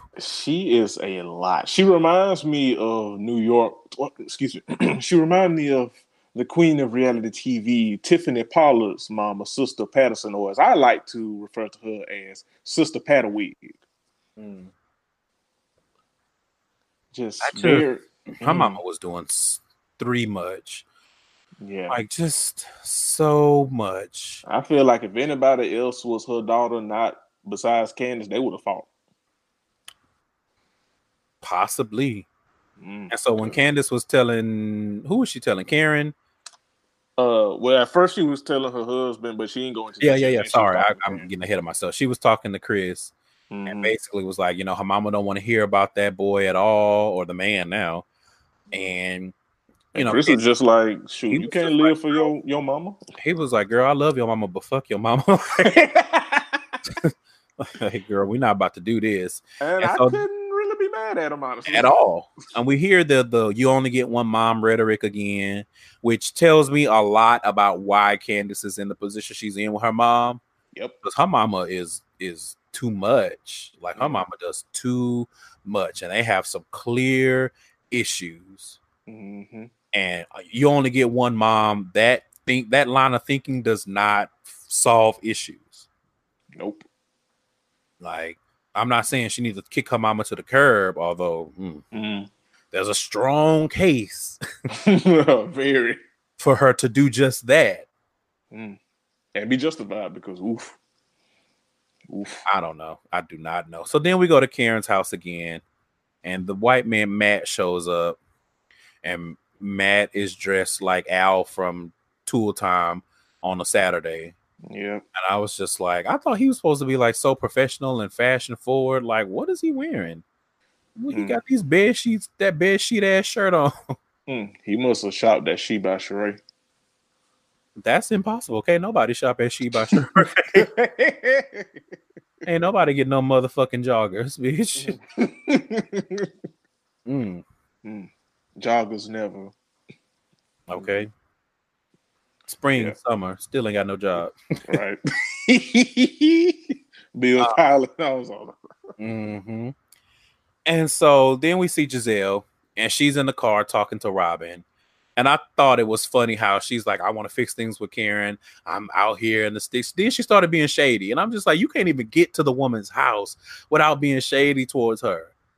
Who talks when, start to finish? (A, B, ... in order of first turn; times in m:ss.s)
0:00.2-0:13.8 A
0:14.4-0:14.7 B
0:17.1-0:18.8 A
0:17.4-0:17.9 B
0:18.4-0:20.8 B
0:21.6-0:22.0 A
0:21.9-0:24.4 B
0:24.4-0:28.9 A
0:31.4-0:32.2 B
0:32.8-0:33.6 A
0:33.1-0:36.1 B
0:37.2-0:41.3 A
0:40.0-0:43.1 B
0:43.5-0:43.9 A
0:43.7-0:48.0 B
0:48.7-0:49.3 B
0:49.9-0:53.0 A
0:49.9-0:50.4 B
0:51.3-0:52.3 B
0:53.2-0:55.8 B
0:55.6-0:56.7 A
0:56.9-1:00.2 B
0:59.6-1:01.9 A
1:01.7-1:10.4 B
1:11.0-1:18.8 B
1:14.0-1:14.2 A
1:19.1-1:19.7 A
1:19.9-1:25.8 B
1:26.6-1:26.8 A
1:28.0-1:31.8 B
1:31.9-1:32.3 A
1:32.7-1:34.4 B
1:34.7-1:36.0 A
1:36.4-1:37.8 B
1:38.5-1:38.8 A
1:39.3-1:40.8 A
1:42.1-1:42.4 A
1:42.4-1:45.6 B
1:46.2-1:48.2 B
1:49.0-1:54.3 B
1:54.7-1:55.0 A
1:55.1-2:00.2 B
2:01.0-2:03.9 B
2:01.1-2:01.4 A
2:04.3-2:06.4 A
2:07.8-2:10.6 B
2:10.5-2:11.7 A
2:12.4-2:15.0 B
2:14.8-2:16.3 A
2:17.0-2:17.4 B
2:17.8-2:19.5 A
2:20.7-2:21.1 B
2:22.5-2:24.8 B
2:24.7-2:28.6 A
2:29.0-2:29.7 B
2:30.6-2:34.6 B
2:35.2-2:45.3 B